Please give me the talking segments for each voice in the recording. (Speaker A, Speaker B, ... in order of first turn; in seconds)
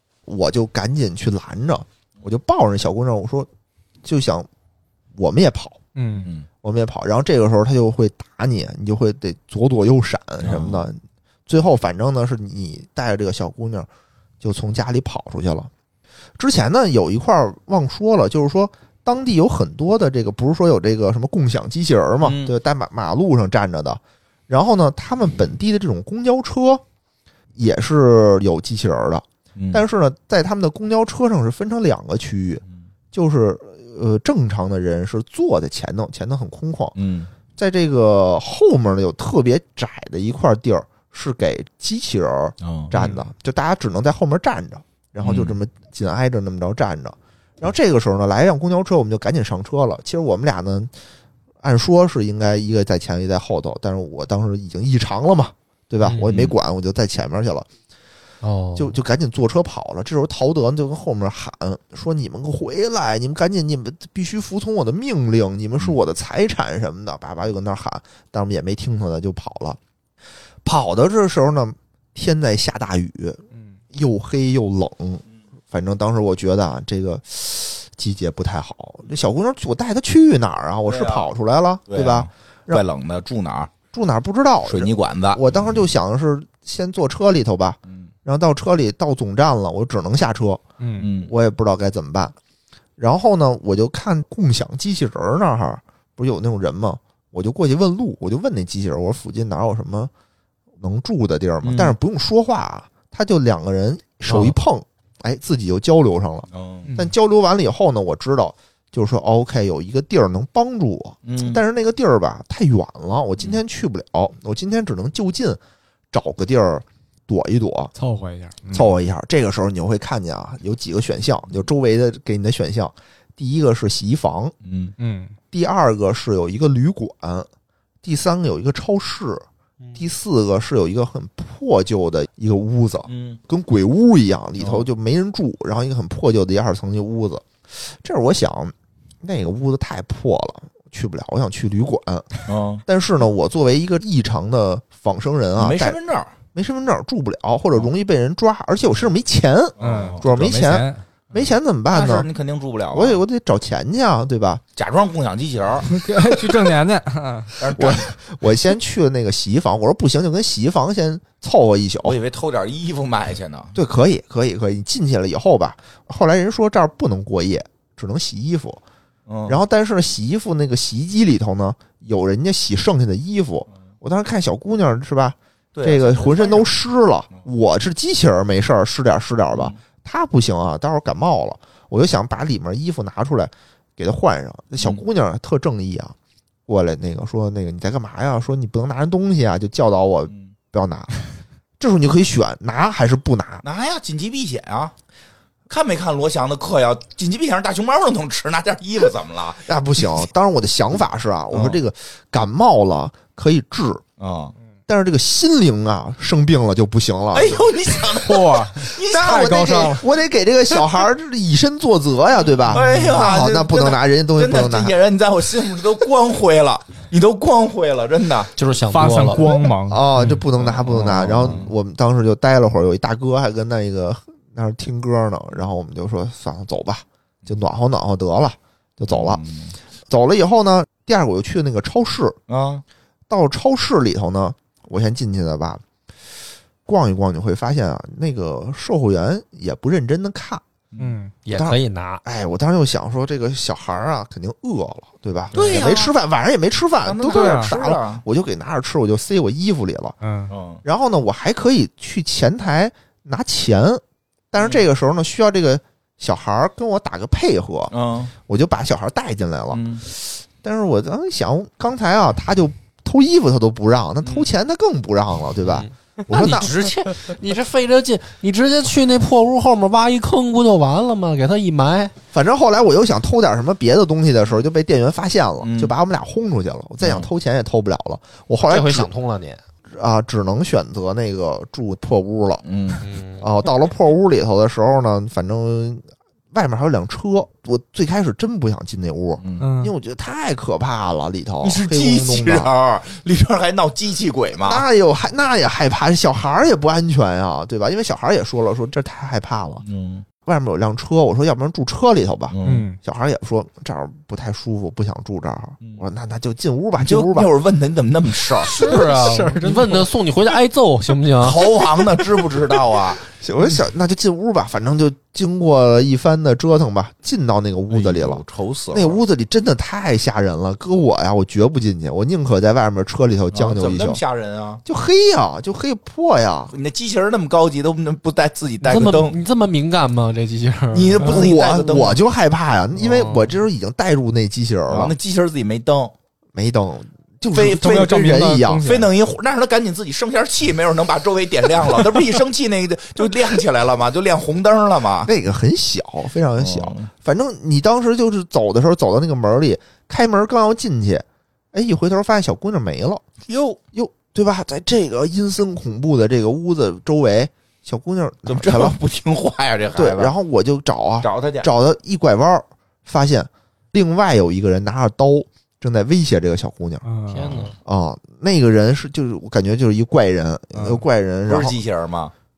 Speaker A: 0.2-3.5, 4.0-4.5, 5.2-5.8, 6.6-13.9, 14.4-15.7, 16.4-26.8, 27.6-36.9, 37.6-50.9, 51.6-57.7, 58.8-69.8, 70.6-82.8, 83.9-90.6, 91.2-92.3, 93.0-100.1, 100.8-115.6, 116.1-117.9, 118.7-124.5, 125.5-127.5, 128.0-129.4, 129.9-146.0, 146.5-152.3, 152.9-154.6, 157.8-162.2, 163.7-168.8, 169.5-186.2, 186.7-191.1, 191.8-193.6, 199.7-204.0, 204.9-207.7, 209.0-214.9, 219.9-229.4, 230.1-232.4, 233.3-235.8, 236.8-240.6, 241.5-250.2, 250.8-266.7, 272.3-279.1, 279.9-282.6, 283.4-292.7, 294.6-299.8, 300.4-307.5, 313.4-324.2, 324.8-326.7, 331.1-335.1, 336.5-338.8, 345.2-353.2, 353.9-359.0, 359.9-367.0, 367.8-371.8
Speaker B: 6.0-6.3, 90.8-91.1, 106.8-107.1, 118.0-118.9, 125.0-125.3, 149.8-151.0, 155.8-157.6, 208.2-210.0, 212.7-213.2, 218.9-220.4, 241.0-241.3, 245.5-245.9, 247.3-247.7, 250.2-250.5, 289.6-289.9, 302.6-303.0, 309.0-310.1, 337.6-339.1, 367.0-367.7, 370.7-371.0
Speaker C: 10.4-10.8, 22.2-22.5, 29.6-29.8, 37.0-37.3, 42.6-43.1, 45.2-45.5, 56.3-56.5, 80.8-81.3, 81.9-83.7, 84.7-85.5, 91.0-91.3, 101.6-101.9, 106.5-106.9, 111.2-111.6, 124.6-124.9, 133.1-133.4, 134.6-134.8, 142.4-142.8, 145.6-146.3, 149.8-150.2, 151.9-153.2, 154.8-155.9, 157.6-158.1, 162.0-163.7, 169.3-169.6, 175.7-176.7, 179.5-179.8, 193.6-194.9, 195.7-200.2, 201.5-201.8, 204.2-204.5, 207.3-209.8, 212.7-218.5, 220.6-221.7, 229.1-229.7, 232.5-232.8, 245.5-246.1, 247.0-248.2, 250.5-250.8, 254.6-254.8, 257.9-258.3, 259.7-260.0, 264.2-264.5, 275.6-275.9, 277.0-277.3, 282.6-283.0, 289.4-289.6, 291.6-294.8, 299.8-300.2, 302.5-302.9, 307.0-308.8, 311.4-313.2, 317.9-319.2, 323.5-324.8, 326.7-329.4, 330.9-332.2, 334.9-336.1, 337.5-338.1, 338.8-345.3, 346.6-347.1, 353.5-353.8, 358.4-360.3, 361.2-361.7, 371.5-372.3
Speaker D: 56.0-56.3, 58.4-58.9, 218.6-219.7, 241.4-242.2, 265.8-272.1, 278.6-279.6, 283.0-283.4, 308.6-311.9, 328.8-331.3, 333.0-333.5, 367.3-367.7